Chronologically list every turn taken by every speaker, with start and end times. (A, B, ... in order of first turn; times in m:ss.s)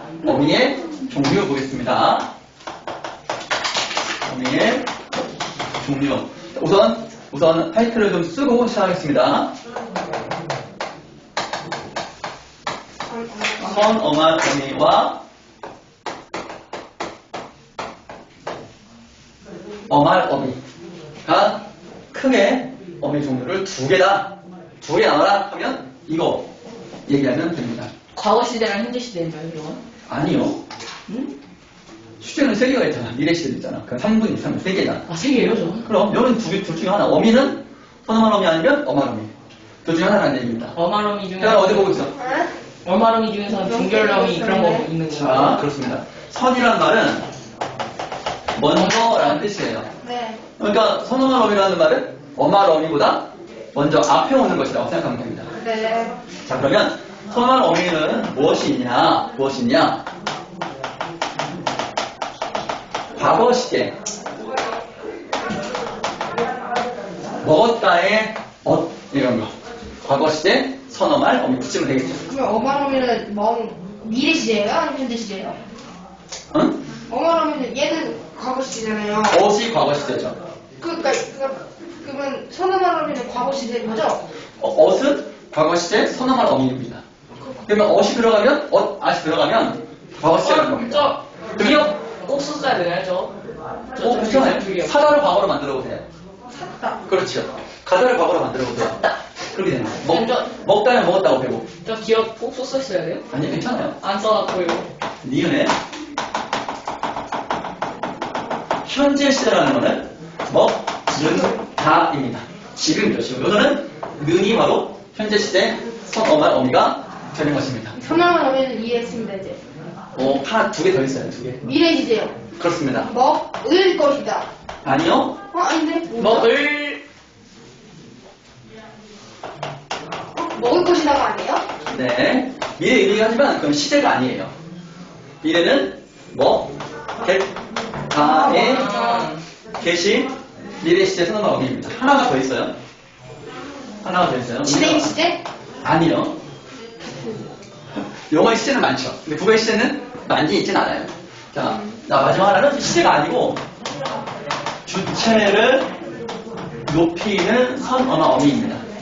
0:00.2-0:02.3 A
0:04.2-0:04.9 A
0:05.8-0:09.5 A
0:13.1-0:14.1 B
0:13.6-0:15.2 A
0:19.9-0:20.6 A
0:21.2-0:26.5 A
0:27.0-0:27.9 A
0:28.1-0:29.8 C
0:30.1-0:30.6 A
0:31.1-0:31.3 C
0:32.2-0:35.0 A
0:35.1-0:35.9 C
0:35.8-0:39.3 A
0:39.8-0:40.8 A
0:40.7-0:42.0 C
0:41.4-0:42.1 A
0:42.1-0:42.5 B
0:42.8-0:45.6 C
0:43.5-0:44.9 B
0:45.1-0:47.3 A
0:48.5-0:49.9 A
0:48.7-0:49.4 C
0:50.0-0:50.4 B
0:50.6-0:55.5 A
0:55.6-0:56.2 B
0:56.4-1:00.0 A
1:03.1-1:03.9 A
1:07.4-1:09.5 A
1:10.0-1:12.2 A
1:12.2-1:15.6 B
1:16.5-1:16.8 A
1:17.1-1:19.4 B
1:19.3-1:20.4 A
1:20.8-1:24.2 B
1:24.6-1:27.0 A
1:27.4-1:27.6 B
1:27.7-1:31.9 A
1:30.4-1:33.3 C
1:33.9-1:35.0 C
1:34.0-1:36.0 A
1:36.5-1:37.0 B
1:37.0-1:41.7 A
1:38.8-1:39.2 C
1:40.0-1:40.5 C
1:41.8-1:43.2 C
1:43.3-1:44.0 A
1:44.0-1:44.9 C
1:45.2-1:45.7 A
1:48.8-1:58.0 A
1:51.1-1:51.6 B
1:57.9-1:59.6 B
2:00.1-2:01.7 A
2:01.6-2:02.4 B
2:02.6-2:03.1 A
2:03.0-2:04.5 B
2:04.8-2:05.4 A
2:05.5-2:06.5 B
2:06.1-2:07.0 C
2:10.4-2:11.6 B
2:11.8-2:14.5 A
2:15.4-2:17.5 A
2:18.1-2:18.9 A
2:18.1-2:19.3 B
2:18.4-2:19.4 C
2:19.8-2:20.3 A
2:20.8-2:22.7 A
2:24.0-2:25.1 A
2:24.6-2:25.4 B
2:25.8-2:26.3 A
2:27.0-2:27.5 B
2:28.0-2:33.6 A
2:31.6-2:32.0 B
2:34.8-2:35.9 A
2:36.8-2:38.8 A